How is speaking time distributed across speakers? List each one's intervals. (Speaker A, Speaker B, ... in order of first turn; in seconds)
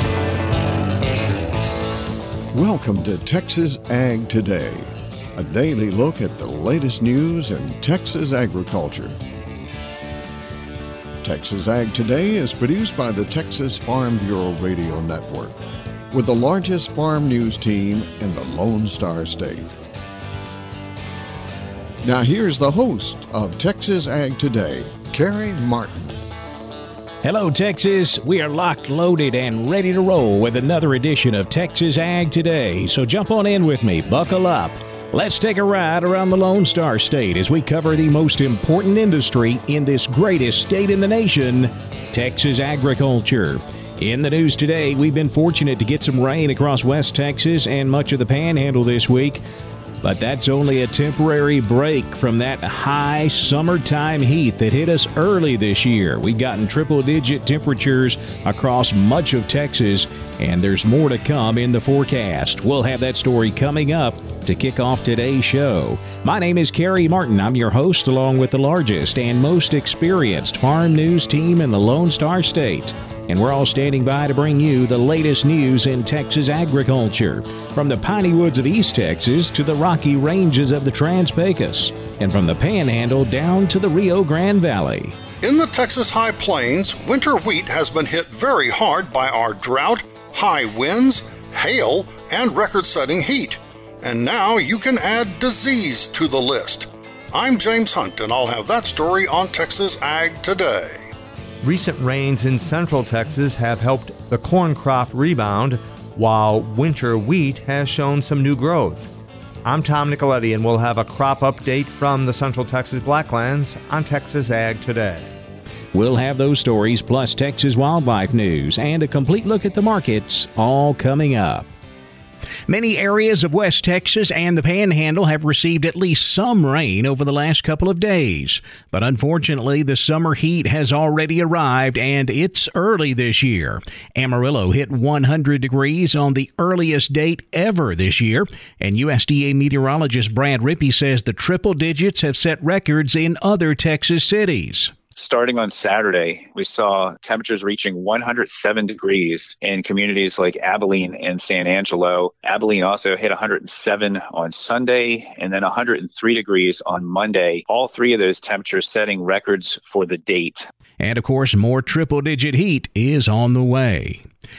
Speaker A: 2.5-9.2, 11.2-15.6, 16.1-19.7, 22.0-26.2
Speaker B: 27.2-49.4, 50.0-85.2, 115.9-121.7, 122.7-144.9, 161.0-164.2
Speaker C: 85.4-101.1
Speaker D: 101.6-109.1, 109.6-115.3
Speaker E: 145.1-160.7